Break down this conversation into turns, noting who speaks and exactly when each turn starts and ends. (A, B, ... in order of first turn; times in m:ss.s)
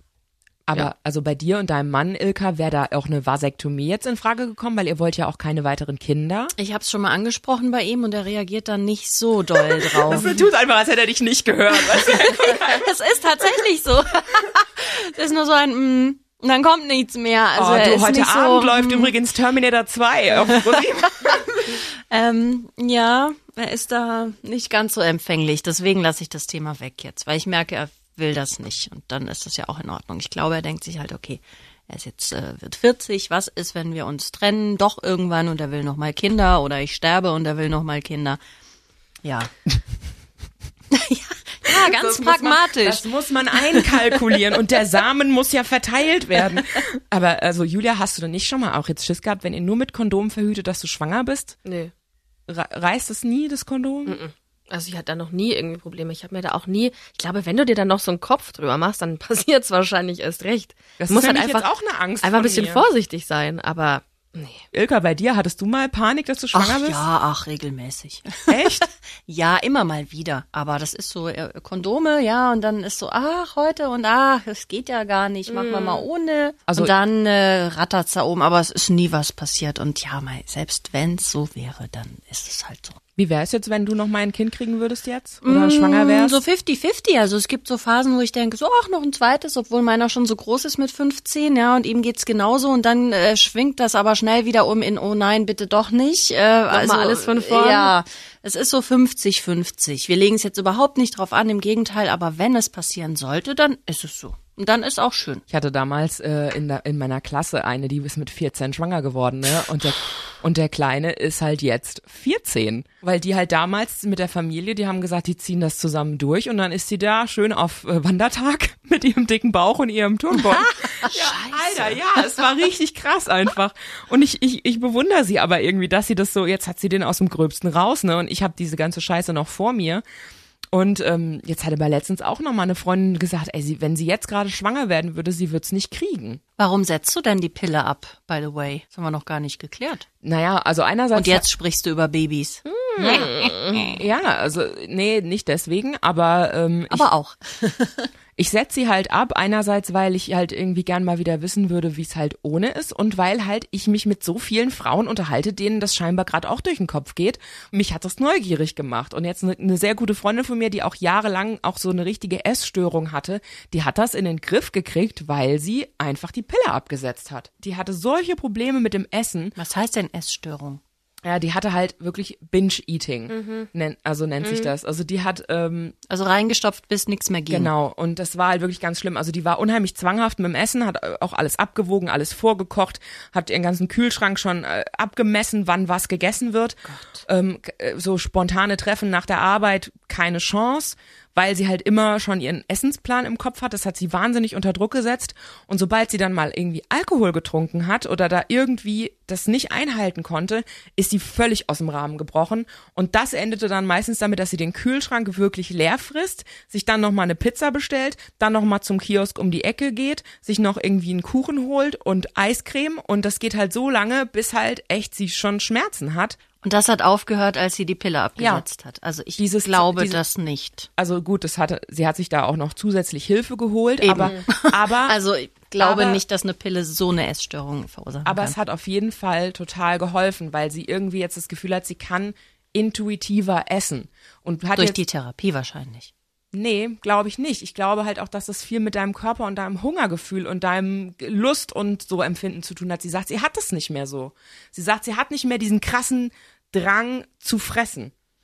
0:00.7-0:06.5 A
0:06.6-0:10.5 B
0:09.8-0:12.8 A
0:11.7-0:19.2 B
0:17.6-0:21.4 A
0:20.5-0:38.4 B
0:39.2-0:39.5 B
0:40.9-0:43.1 B
0:41.7-0:51.6 A
0:43.7-0:44.0 B
0:51.6-0:51.9 C
0:52.5-0:54.2 A
0:54.1-1:01.7 C
1:01.0-1:02.9 A
1:02.2-1:04.6 C
1:04.7-1:07.0 A
1:06.5-1:23.0 B
1:08.5-1:08.9 A
1:15.5-1:16.1 C
1:16.7-1:16.9 A
1:23.2-1:26.4 A
1:25.4-1:45.4 B
1:36.7-1:38.0 C
1:45.5-2:10.0 A
2:00.3-2:02.0 B
2:10.7-2:16.4 A
2:16.6-2:20.1 B
2:20.2-2:21.4 A
2:21.1-2:23.9 B
2:22.7-2:23.8 C
2:23.0-2:27.1 A
2:26.9-2:28.1 B
2:28.4-2:49.6 A
2:49.6-2:50.8 B
2:51.2-2:56.0 A
2:53.3-2:53.7 C
2:54.4-2:54.7 C
2:56.1-2:57.7 B
2:57.5-3:36.4 A
3:06.9-3:07.2 B
3:36.6-3:40.9 B
3:38.4-3:38.6 A
3:39.4-3:40.2 A
3:41.0-3:45.2 A
3:44.0-3:48.6 B
3:45.8-3:46.2 A
3:48.2-3:55.0 A
3:54.8-3:56.1 B
3:56.5-4:08.1 A